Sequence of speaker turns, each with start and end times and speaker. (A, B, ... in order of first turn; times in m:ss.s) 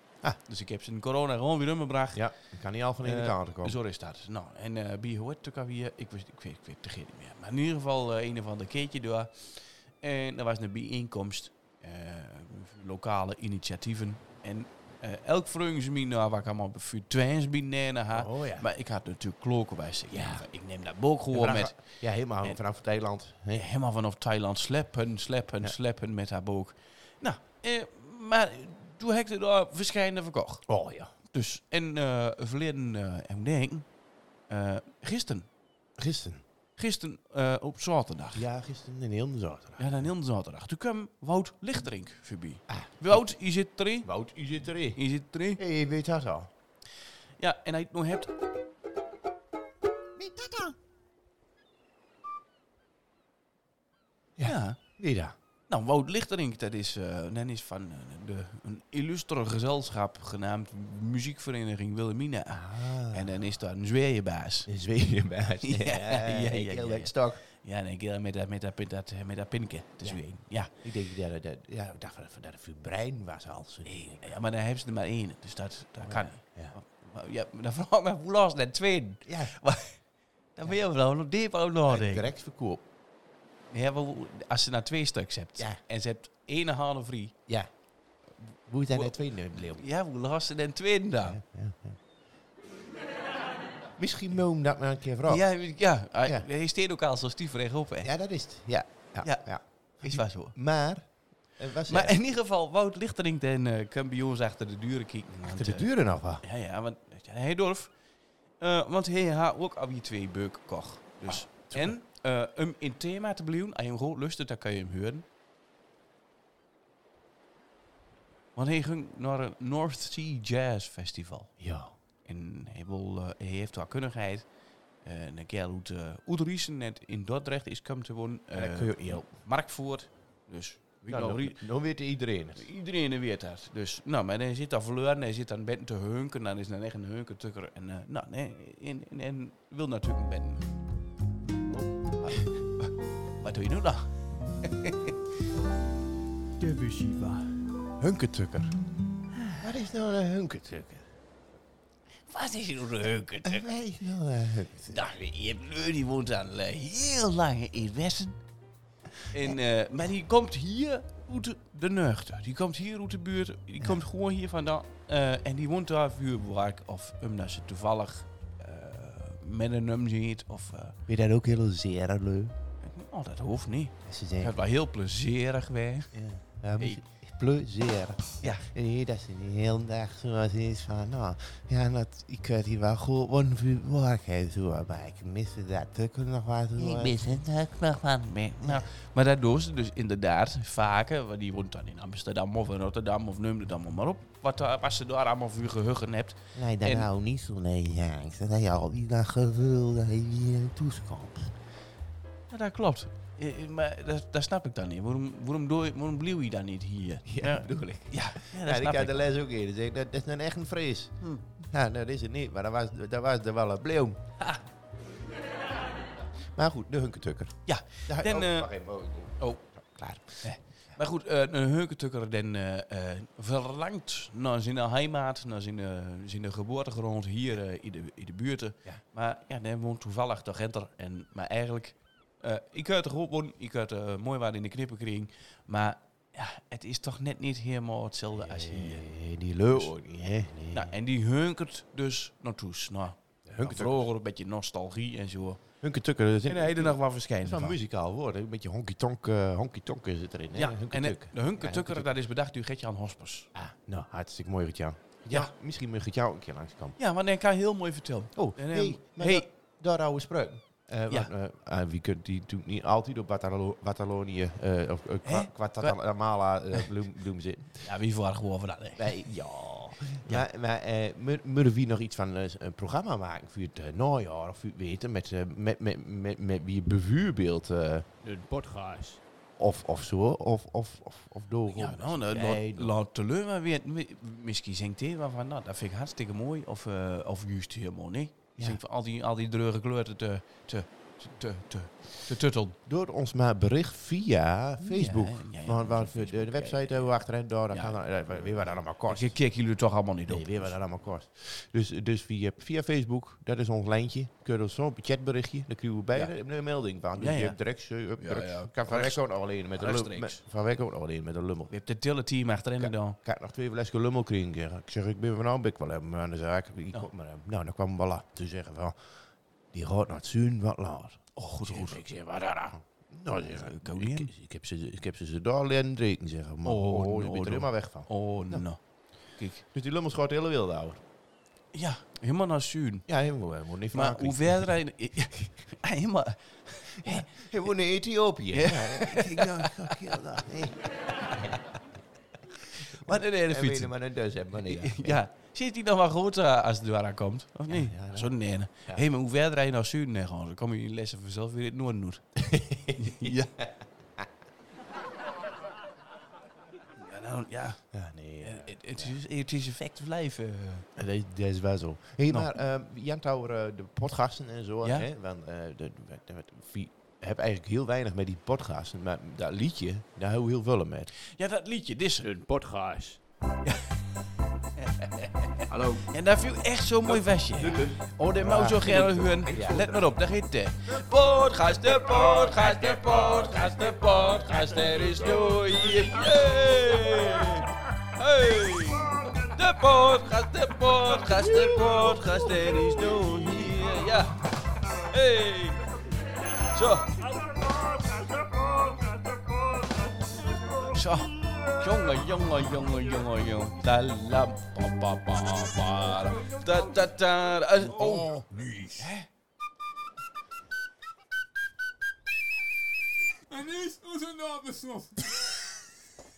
0:00.4-0:02.3 A
0:02.1-0:03.8 B
0:03.0-0:21.9 A
0:18.1-0:18.7 B
0:20.1-0:20.5 B
0:21.3-0:23.7 B
0:23.5-0:30.7 A
0:30.7-0:31.1 B
0:31.3-0:33.9 A
0:34.5-0:35.5 A
0:36.0-0:36.4 B
0:36.8-0:38.5 A
0:38.3-0:40.1 B
0:39.8-0:44.1 A
0:42.7-0:43.3 B
0:44.0-0:45.0 B
0:45.0-0:45.6 A
0:45.6-0:46.5 B
0:47.4-0:48.3 A
0:50.2-0:50.8 B
0:54.4-0:55.4 B
0:54.4-0:54.8 A
0:55.7-1:04.7 A
1:02.5-1:03.4 B
1:04.7-1:07.4 B
1:05.6-1:10.7 A
1:10.0-1:14.3 B
1:13.9-1:20.0 A
1:16.0-1:16.8 B
1:19.3-1:19.6 B
1:20.6-1:22.3 A
1:21.9-1:22.8 B
1:23.7-1:27.3 A
1:28.4-1:29.8 B
1:28.9-1:31.4 A
1:31.2-1:32.0 B
1:34.0-1:35.5 B
1:35.3-1:38.1 A
1:38.0-1:42.2 B
1:40.0-1:40.6 A
1:41.9-1:45.9 A
1:45.4-1:46.4 B
1:46.4-1:47.9 A
1:48.6-1:55.3 A
1:51.3-1:52.0 B
1:58.6-2:01.5 A
2:01.6-2:01.9 B
2:02.2-2:04.5 A
2:05.0-2:11.6 A
2:08.5-2:09.3 B
2:11.1-2:12.7 B
2:12.6-2:20.7 A
2:21.8-2:22.6 B
2:23.4-2:25.2 A
2:26.6-2:27.6 A
2:28.0-2:28.8 B
2:29.6-2:31.1 B
2:32.3-2:33.7 A
2:33.4-2:35.0 B
2:34.9-2:38.4 A
2:39.3-2:51.0 A
2:51.1-2:52.6 B
2:52.8-2:56.1 A
2:54.0-2:54.6 B
2:56.1-3:07.4 B
3:06.8-3:17.1 A
3:16.6-3:21.6 B
3:22.5-3:29.2 A
3:27.3-3:34.3 B
3:36.5-3:41.0 B
3:37.7-3:38.7 A
3:40.4-3:59.0 A
3:58.4-4:01.0 B
4:00.7-4:05.6 A
4:03.4-4:04.1 B
4:05.8-4:12.1 B
4:06.5-4:07.8 A
4:10.6-4:13.5 A
4:13.5-4:17.0 B
4:17.0-4:19.5 A
4:18.4-4:27.9 B
4:25.2-4:26.0 A
4:27.8-4:29.3 A
4:29.0-4:38.1 B
4:38.2-4:39.2 C
4:39.6-4:42.9 B
4:41.7-4:52.8 A
4:52.9-4:59.4 B
4:54.8-4:57.1 A
4:57.7-5:00.7 A
5:00.3-5:11.7 B
5:07.2-5:07.6 A
5:08.2-5:09.2 A
5:09.7-5:10.4 A
5:11.7-5:13.2 A
5:12.8-5:19.1 B
5:19.7-5:28.6 B
5:21.4-5:22.0 A
5:23.4-5:24.3 A
5:26.6-5:28.8 A
5:29.6-5:31.0 B
5:31.7-5:33.1 A
5:33.1-5:34.7 B
5:33.9-5:37.4 A
5:37.0-5:41.8 B
5:38.5-5:40.2 A
5:41.2-5:41.6 A
5:42.6-5:45.2 B
5:42.8-5:43.9 A
5:44.6-5:52.4 A
5:47.7-5:48.3 B
5:52.4-5:54.3 B
5:52.9-5:53.5 A
5:57.0-6:00.9 A
5:57.9-5:59.2 B
6:01.0-6:11.1 B
6:02.3-6:02.6 A
6:04.8-6:05.1 A
6:11.2-6:12.4 A
6:12.2-6:13.2 C
6:13.6-6:14.0 A
6:14.8-6:34.5 A
6:17.6-6:20.1 B
6:35.0-6:35.8 A
6:36.7-6:37.2 A
6:37.3-6:40.8 D
6:40.9-6:48.3 A
6:46.1-6:47.1 D
6:47.8-6:49.1 D
6:49.0-6:49.3 A
6:53.5-6:55.7 D